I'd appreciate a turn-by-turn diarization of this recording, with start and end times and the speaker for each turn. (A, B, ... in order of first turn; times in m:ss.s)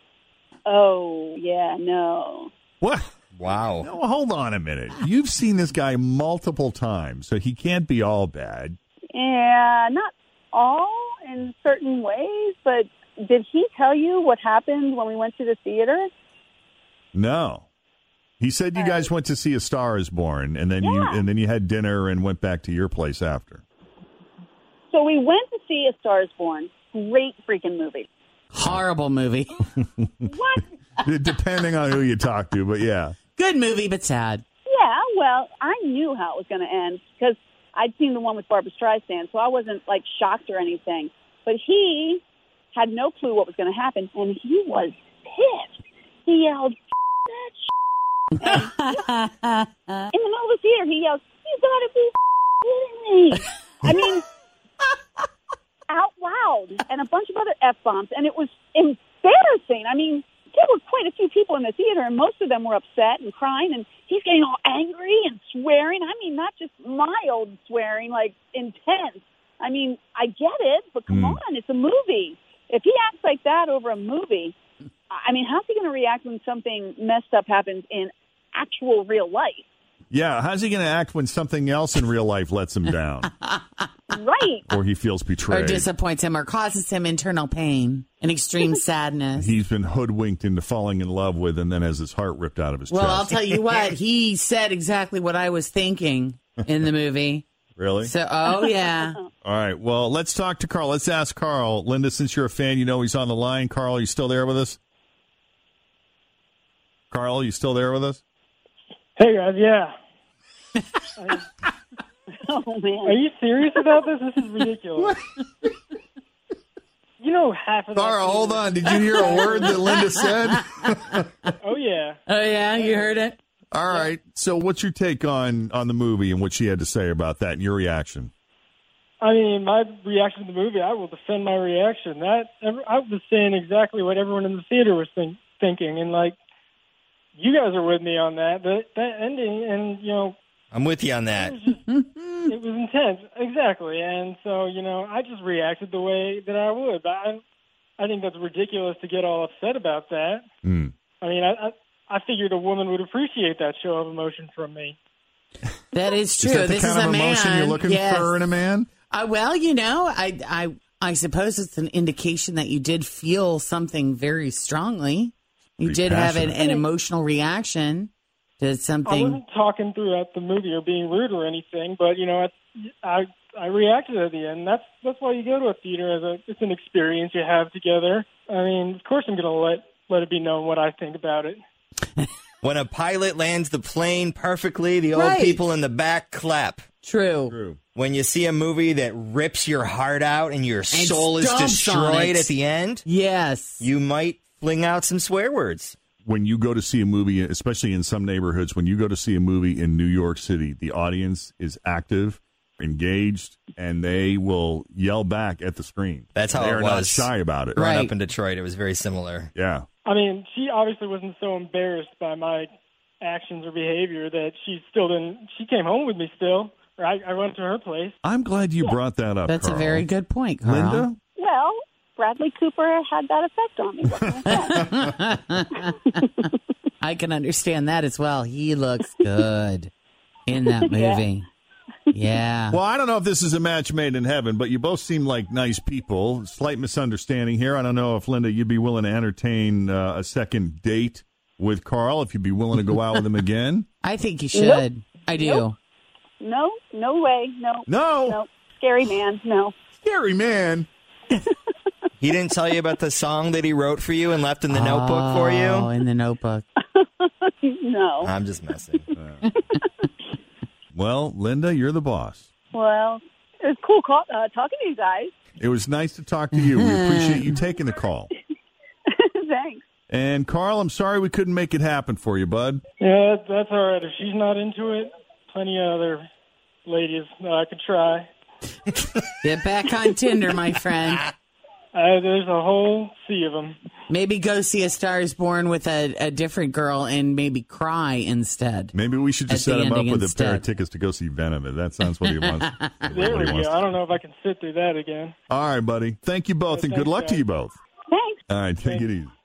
0:00.7-0:02.5 A
0:02.8-0:03.2 B
0:03.4-0:03.9 C
0:03.8-0:08.8 B
0:09.1-0:16.1 A
0:17.1-0:17.7 B
0:18.4-0:23.6 B
0:18.8-0:19.1 A
0:20.8-0:21.2 A
0:24.9-0:28.1 A
0:28.5-0:29.6 D
0:29.9-0:30.3 B
0:30.3-0:30.6 A
0:31.0-0:33.2 B
0:33.4-0:34.4 D
0:34.7-0:42.2 A
0:42.7-0:46.8 A
0:47.3-0:47.7 A
0:48.4-0:49.1 D
0:48.4-0:48.7 A
0:50.1-0:54.2 A
0:55.9-1:14.6 A
1:11.1-1:11.4 B
1:15.1-1:19.6 A
1:20.1-1:23.3 B
1:23.4-1:23.9 D
1:24.1-1:24.7 A
1:24.7-1:25.9 B
1:25.5-1:29.5 D
1:29.4-1:33.4 B
1:32.9-1:37.4 D
1:37.8-1:38.1 B
1:38.0-1:39.2 D
1:39.4-1:44.8 B
1:47.1-1:48.2 B
1:49.2-1:49.9 E
1:51.2-1:51.5 E
1:52.4-1:53.2 A
1:53.1-1:55.2 E
1:57.2-1:59.8 E
1:58.0-2:01.3 B
1:59.0-2:00.6 D
2:01.6-2:02.2 E
2:02.3-2:03.4 D
2:02.8-2:03.2 E
2:03.7-2:08.3 B
2:09.2-2:16.4 E
2:17.4-2:20.4 E
2:20.7-2:21.6 C
2:21.3-2:21.8 E
2:22.5-2:27.4 E
2:28.0-2:30.4 E
2:30.6-2:30.9 B
2:31.2-2:35.0 E
2:35.9-2:38.4 D
2:36.4-2:38.9 B
2:39.1-2:49.4 D
2:45.8-2:46.6 B
2:49.1-3:01.6 E
3:02.6-3:06.8 C
3:05.1-3:05.6 D
3:07.0-3:07.6 D
3:07.5-3:07.8 B
3:08.0-3:13.0 C
3:10.9-3:12.5 D
3:13.1-3:13.8 D
3:13.8-3:16.0 C
3:16.2-3:27.9 B
3:26.4-3:29.5 C
3:27.8-3:28.1 D
3:29.6-3:29.9 B
3:30.0-3:32.7 E
3:33.2-3:38.2 E
3:38.2-3:40.1 B
3:39.5-3:41.1 D
3:40.6-3:41.2 B
3:41.4-3:44.9 A
3:44.3-3:44.8 B
3:44.6-3:45.9 D
3:47.0-3:49.9 D
3:50.5-3:51.5 D
3:50.7-3:51.2 A
3:52.1-3:52.8 D
3:52.7-4:03.9 B
4:02.9-4:03.3 D
4:04.0-4:05.8 D
4:04.5-4:04.8 A
4:05.4-4:05.6 A
4:06.4-4:09.8 A
4:07.9-4:08.4 B
4:10.0-4:10.9 B
4:12.2-4:15.9 C
4:14.7-4:16.6 D
4:17.0-4:18.3 A
4:18.2-4:19.0 C
4:19.2-4:19.4 B
4:20.9-4:22.5 B
4:22.7-4:25.3 A
4:25.6-4:28.3 B
4:26.6-4:27.5 D
4:29.1-4:29.8 A
4:30.1-4:32.8 B
4:33.0-4:36.2 E
4:36.8-4:38.3 E
4:39.4-4:41.2 D
4:41.9-4:43.8 E
4:44.1-4:48.9 D
4:48.9-4:53.9 B
4:49.5-4:50.6 D
4:52.2-4:53.2 D
4:53.1-4:55.4 E
4:55.5-4:57.8 B
4:56.7-4:57.4 E
4:58.1-4:58.4 A
4:58.5-4:59.3 B
4:58.8-4:59.1 E